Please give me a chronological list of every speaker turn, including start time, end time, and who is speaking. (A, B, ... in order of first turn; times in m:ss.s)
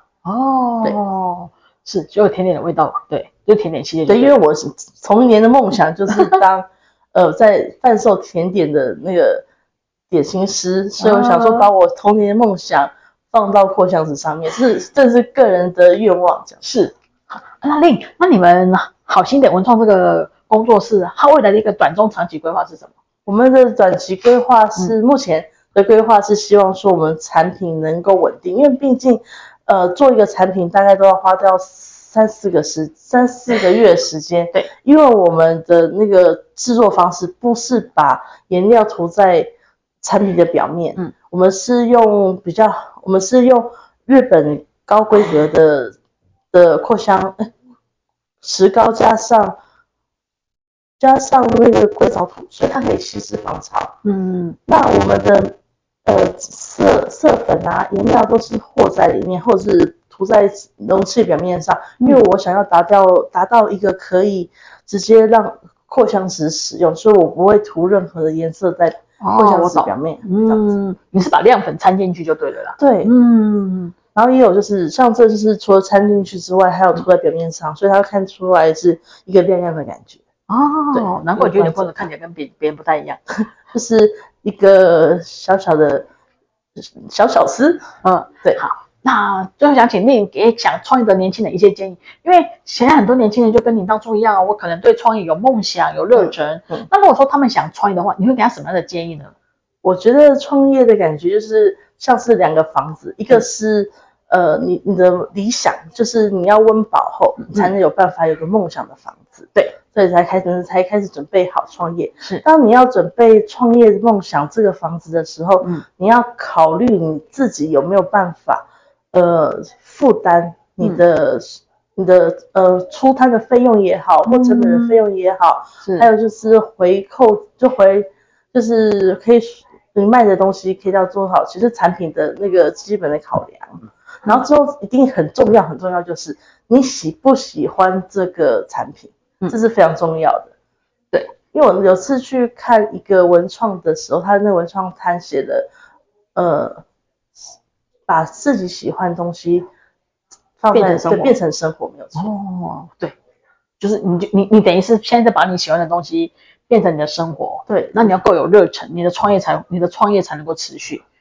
0:00.2-0:04.4 A
0:04.1-0:09.4 B
0:06.1-0:06.4 A
0:10.1-0:16.6 B
0:11.0-0:11.7 A
0:16.6-0:22.9 A
0:23.3-0:39.5 B
0:40.0-0:46.0 B
0:46.5-0:47.5 B
0:48.4-0:49.6 B
0:51.0-0:54.0 B
0:54.0-0:54.6 A
0:54.7-0:55.5 B
0:56.1-1:10.7 B
1:09.2-1:13.9 A
1:12.8-1:13.1 B
1:14.2-1:20.2 B
1:20.5-1:23.2 A
1:20.9-1:21.9 B
1:23.7-1:26.1 B
1:26.8-1:27.9 B
1:28.0-1:39.3 A
1:36.2-1:36.9 B
1:39.8-2:20.5 B
1:47.4-1:47.7 A
2:04.3-2:05.0 A
2:21.5-2:25.7 B
2:26.4-2:26.8 B
2:28.1-2:29.7 B
2:30.6-2:32.3 B
2:30.7-2:31.4 A
2:32.2-2:33.2 A
2:33.8-2:41.0 A
2:37.7-2:38.2 B